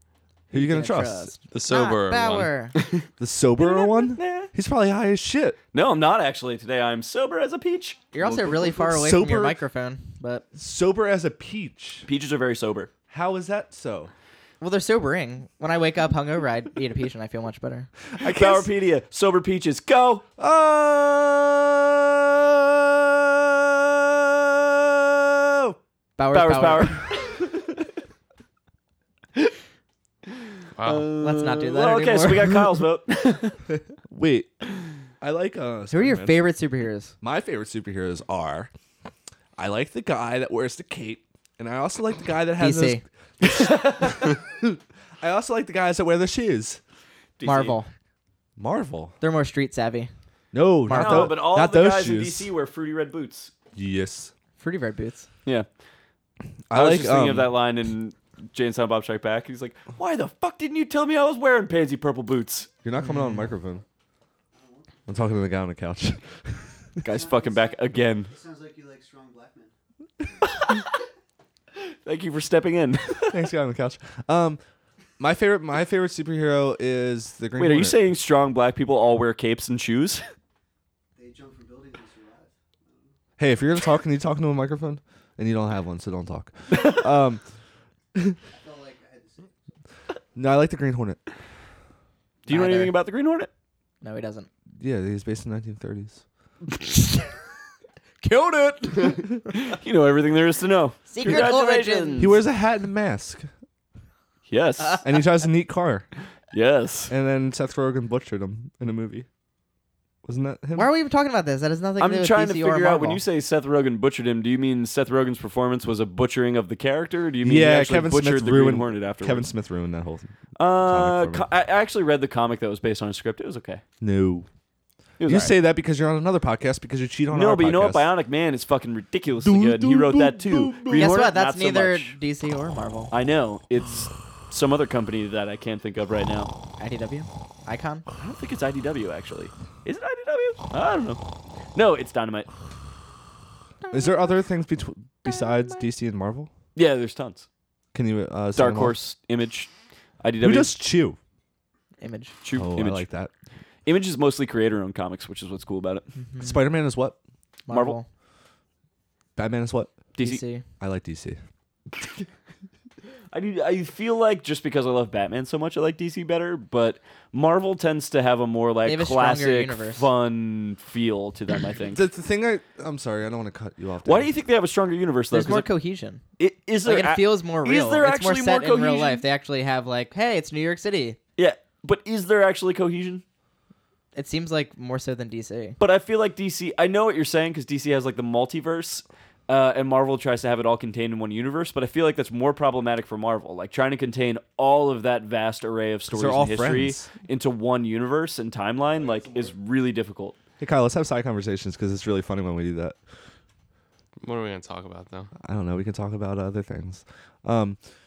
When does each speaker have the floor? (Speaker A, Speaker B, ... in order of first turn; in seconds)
Speaker A: 0.5-1.3, 3.2-5.6, 8.8-9.6, 10.6-12.1, 13.1-14.1, 18.2-18.7, 20.4-25.8, 34.1-34.5, 35.2-36.4, 37.2-38.7, 39.6-46.8, 48.6-49.1, 50.5-52.5, 53.8-54.3, 56.7-57.5, 62.8-63.8, 65.1-66.8, 73.3-74.6, 75.2-78.0, 83.4-87.4, 90.3-91.2, 94.8-96.2, 102.2-103.5, 105.0-106.1, 107.1-109.3, 110.2-110.9, 117.4-121.5, 124.0-124.5, 125.2-128.1, 129.4-131.1, 143.9-146.5, 147.9-149.0, 150.4-151.2, 152.5-153.3, 156.4-157.2, 159.4-160.0, 160.8-161.4, 171.9-174.3, 196.1-197.1, 200.6-203.0, 205.4-207.8
Speaker B: 0.5-2.8, 8.1-10.5, 14.6-17.9, 26.2-27.1, 31.2-32.7, 35.9-37.1, 42.6-43.0, 47.4-47.9, 49.2-50.1, 50.9-51.4, 54.6-55.3, 63.0-63.5, 92.5-92.9, 94.0-94.5, 98.2-99.2, 101.1-102.4, 110.8-113.2, 130.9-133.1, 136.8-138.1, 152.0-152.4, 156.2-156.7, 157.7-158.1, 160.2-160.6, 168.8-170.1, 175.3-176.2, 176.8-181.2, 184.2-185.8
Speaker C: 1.5-2.5, 30.8-31.1, 204.2-205.3
Speaker D: 3.6-4.5, 5.7-8.9, 12.1-12.9, 18.2-20.3, 26.3-27.5, 30.8-33.6, 43.5-44.2, 47.4-47.8, 50.9-53.5, 56.7-62.7, 67.0-68.3, 70.6-70.9, 72.0-73.4, 77.6-80.2, 86.7-87.0, 92.5-93.5, 99.6-102.4, 104.5-105.1, 106.5-107.1, 112.0-119.5, 120.6-123.8, 125.2-125.5, 127.3-132.2, 133.1-136.5, 138.2-141.2, 141.7-142.5, 146.8-147.5, 148.6-150.8, 152.4-153.1, 153.8-156.1, 157.7-158.0, 160.2-160.4, 163.3-172.0, 174.1-175.7, 176.4-179.2, 181.4-183.2, 185.8-200.4
Speaker E: 64.5-65.0, 67.1-69.7, 81.2-83.1, 88.5-89.5